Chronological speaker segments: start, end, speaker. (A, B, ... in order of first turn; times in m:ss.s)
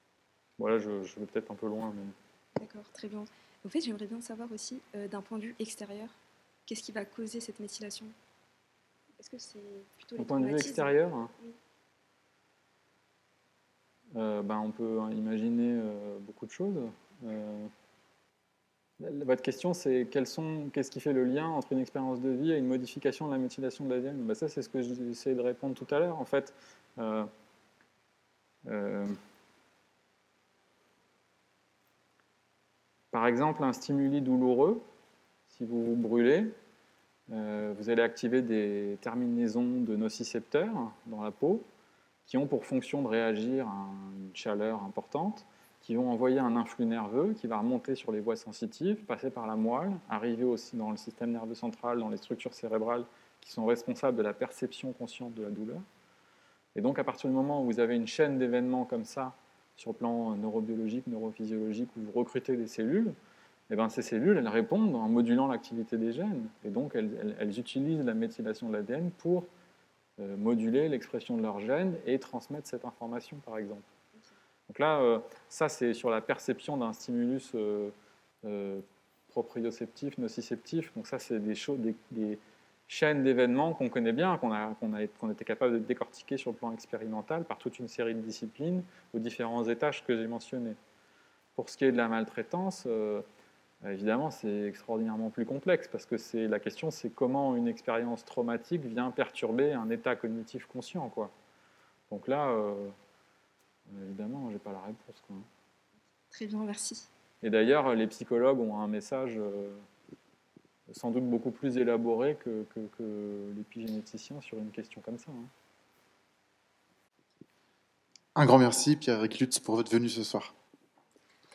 0:00.6-0:02.1 A
0:02.6-0:08.2 B
0:09.2-0:11.6 B
0:10.2-0:11.3 A
0:14.1-0:17.7 A
0:19.0-0:27.3 A
0:28.6-0:29.2 A
0:33.1-0:34.8 A
0:35.5-0:36.6 A
0:37.3-0:41.7 A
0:42.2-0:55.8 A
0:56.7-1:03.2 A
1:03.7-1:09.5 A
1:10.2-1:13.8 A
1:14.7-1:30.8 A
1:31.6-1:33.2 A
1:33.8-1:41.3 A
1:42.1-1:42.9 A
1:43.9-1:45.5 A
1:46.3-1:47.1 B
1:47.4-1:49.8 A
1:50.9-1:55.5 A
1:58.3-2:00.5 C